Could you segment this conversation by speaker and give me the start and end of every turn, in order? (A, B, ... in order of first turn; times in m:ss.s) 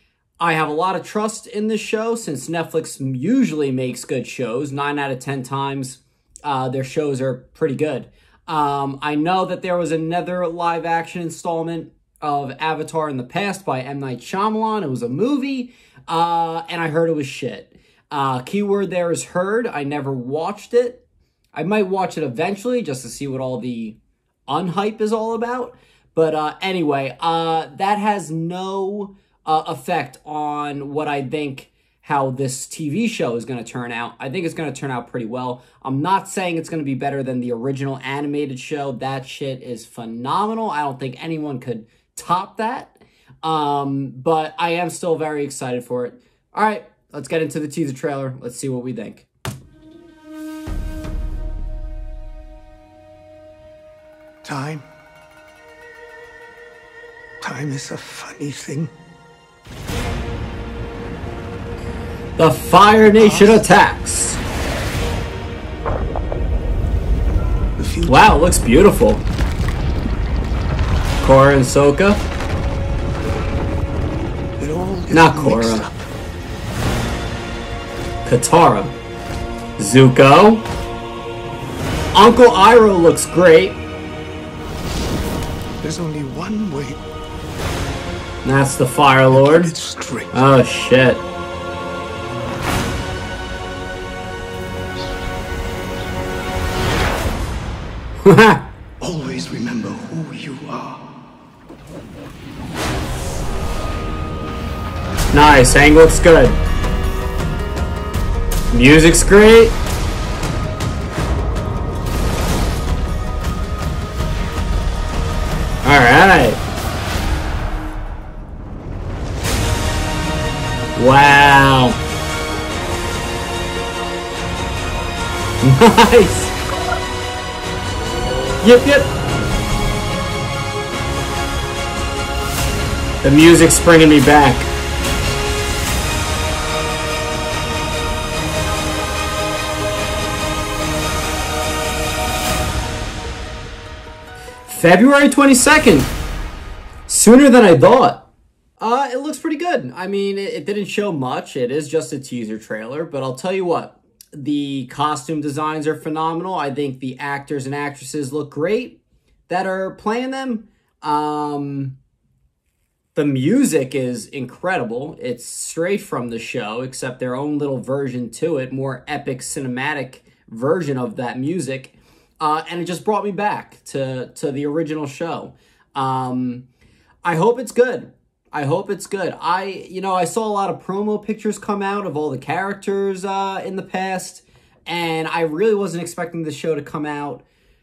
0:00.4-0:21.0 A
0:21.5-0:49.3 A
0:54.4-0:54.8 B
0:57.4-0:58.9 B
1:02.4-1:04.4 A
1:03.1-1:03.6 B
1:07.8-1:08.2 B
1:08.0-1:09.2 A
1:11.2-1:12.2 A
1:14.6-1:16.0 B
1:15.1-1:15.9 A
1:18.2-1:18.9 A
1:19.8-1:20.6 A
1:22.1-1:23.8 A
1:25.8-1:27.0 B
1:28.4-1:29.7 A
1:29.3-1:30.4 B
1:30.3-1:31.2 A
1:38.2-1:38.7 A
1:39.0-1:41.0 B
1:45.3-1:46.6 A
1:48.7-1:49.7 A
1:55.8-1:56.6 A
2:01.0-2:02.0 A
2:05.6-2:06.5 A
2:08.6-2:09.1 A
2:13.2-2:14.7 A
2:24.7-2:26.1 A
2:27.1-2:28.2 A
2:28.8-2:42.0 A
2:43.1-2:56.6 A
2:57.2-3:07.4 A